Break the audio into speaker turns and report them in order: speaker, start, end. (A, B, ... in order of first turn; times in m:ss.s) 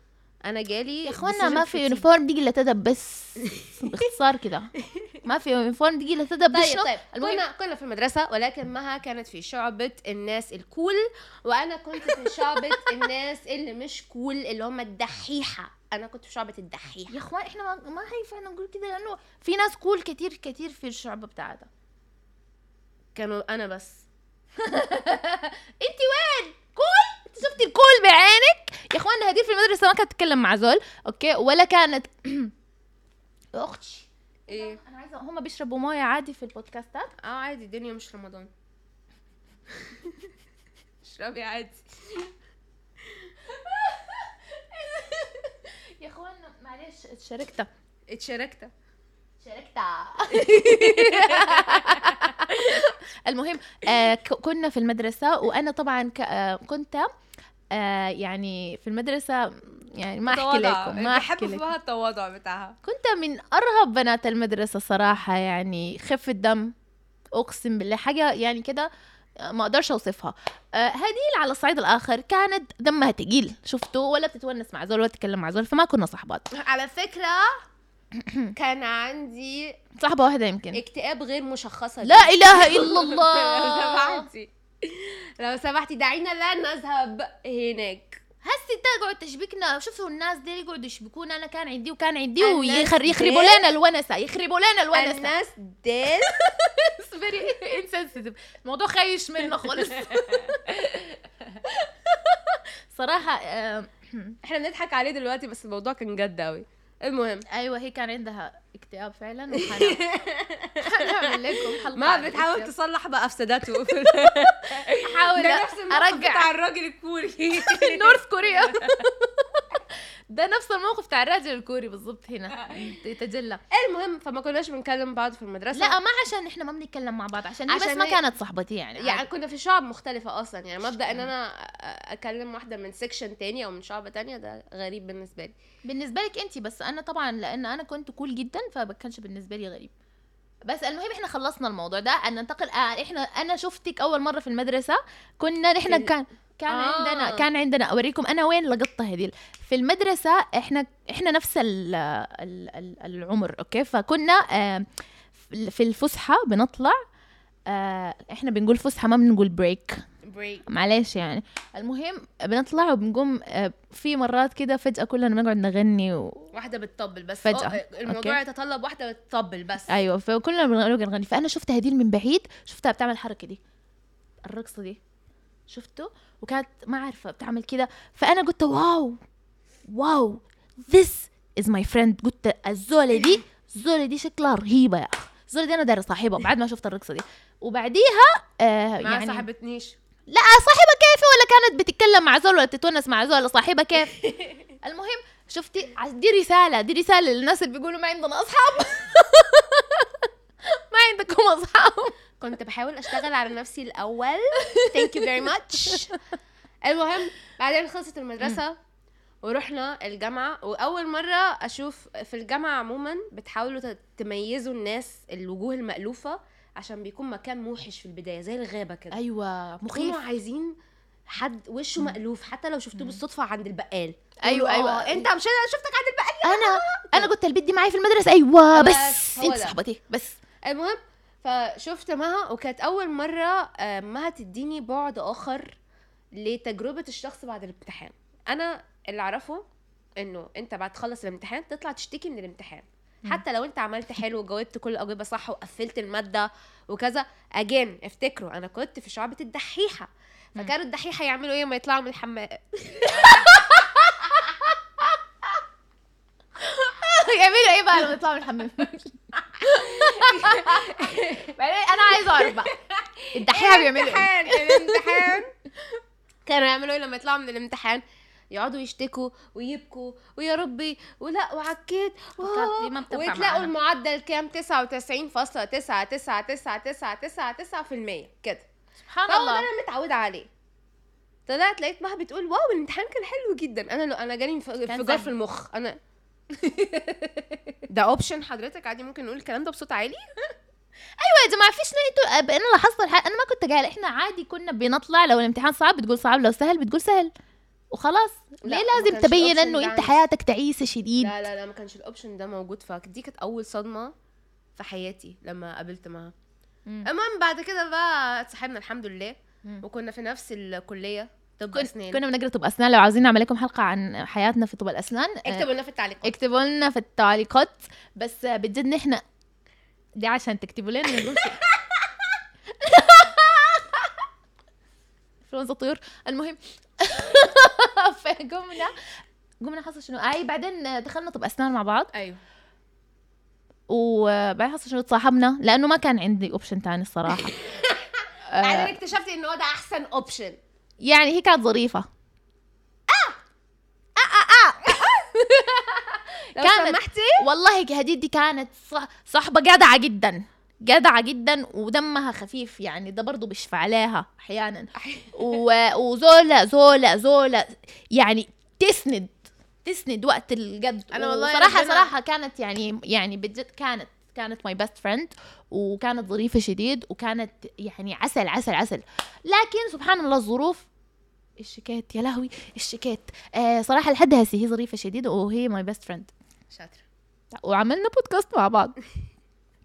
0:00.4-0:02.1 A
0:01.0-0:07.4 B
0:03.4-0:03.9 A
0:04.8-0:05.1 A
0:06.5-0:17.2 A
0:17.1-0:21.7 B
0:23.1-0:24.1 A
0:24.6-0:32.5 B
0:33.5-0:37.1 B
0:34.5-0:34.8 A
0:37.2-0:38.5 A
0:39.8-0:40.2 A
0:41.0-0:42.3 A
0:43.5-0:47.7 B
0:48.1-0:48.7 A
0:49.4-0:57.1 B
0:50.3-0:52.4 A
0:57.7-1:01.7 B
1:00.3-1:02.8 A
1:02.8-1:06.7 B
1:07.3-1:08.9 B
1:09.4-1:16.5 B
1:16.5-1:17.6 A
1:18.2-1:18.5 B
1:18.5-1:19.8 A
1:20.0-1:20.8 B
1:20.7-1:28.2 A
1:22.0-1:24.3 B
1:28.4-1:35.3 B
1:32.4-1:33.7 A
1:34.9-1:36.5 A
1:36.2-1:44.4 B
1:39.6-1:40.6 A
1:44.4-1:47.4 A
1:47.5-1:50.0 B
1:49.5-1:58.9 A
1:50.8-1:52.7 B
1:54.6-1:56.5 B
1:57.6-2:03.6 B
2:02.6-2:02.9 A
2:03.7-2:06.0 A
2:05.7-2:09.3 B
2:07.7-2:08.2 A
2:09.0-2:15.5 A
2:15.8-2:19.9 B
2:20.7-2:34.9 B
2:25.8-2:26.1 A
2:26.7-2:27.4 A
2:35.5-2:37.0 B
2:37.7-2:40.0 B
2:40.2-2:40.6 A
2:40.7-2:46.5 B
2:46.5-2:49.9 A
2:47.4-2:48.4 B
2:49.9-2:53.6 B
2:54.4-2:55.0 B
2:55.7-2:59.2 B
2:59.9-3:09.4 B
3:09.0-3:10.0 A
3:10.3-3:14.2 B
3:14.2-3:14.5 A
3:14.8-3:22.2 B
3:22.4-3:26.2 A
3:24.7-3:25.3 B
3:26.8-3:28.8 A
3:29.4-3:39.2 A
3:39.1-3:40.2 B
3:39.9-3:40.7 A
3:41.3-3:47.3 A
3:44.4-3:45.2 B
3:46.4-3:50.4 B
3:48.7-3:49.8 A
3:50.6-3:55.8 A
3:56.4-3:59.6 A
4:00.2-4:13.7 A
4:13.1-4:15.2 B
4:16.6-4:22.7 B
4:19.6-4:21.6 A
4:22.1-4:25.5 A
4:23.3-4:25.4 B
4:26.4-4:38.7 A
4:32.4-4:33.7 B
4:39.0-4:39.7 B
4:39.3-4:40.5 A
4:41.5-4:46.0 A
4:44.9-4:45.3 B
4:46.5-4:50.3 A
4:51.2-4:57.3 B
4:57.9-5:01.3 B
4:58.6-5:00.1 A
5:01.2-5:04.1 A
5:04.8-5:06.3 A
5:07.0-5:12.2 A
5:11.7-5:15.7 B
5:15.4-5:16.3 A
5:16.2-5:19.2 B
5:20.2-5:21.6 B
5:22.8-5:24.2 B
5:25.5-5:29.0 B
5:29.6-5:32.1 B
5:32.1-5:32.4 A
5:33.9-5:37.6 B
5:37.3-5:40.6 A
5:38.5-5:38.9 B
5:41.0-5:42.1 B
5:43.1-5:43.4 A
5:44.2-6:10.9 B
5:44.8-5:45.2 A
5:46.6-5:47.4 A
5:55.0-5:55.4 A
6:01.1-6:02.1 A
6:11.6-6:16.3 B
6:16.7-6:17.0 A
6:17.5-6:19.0 B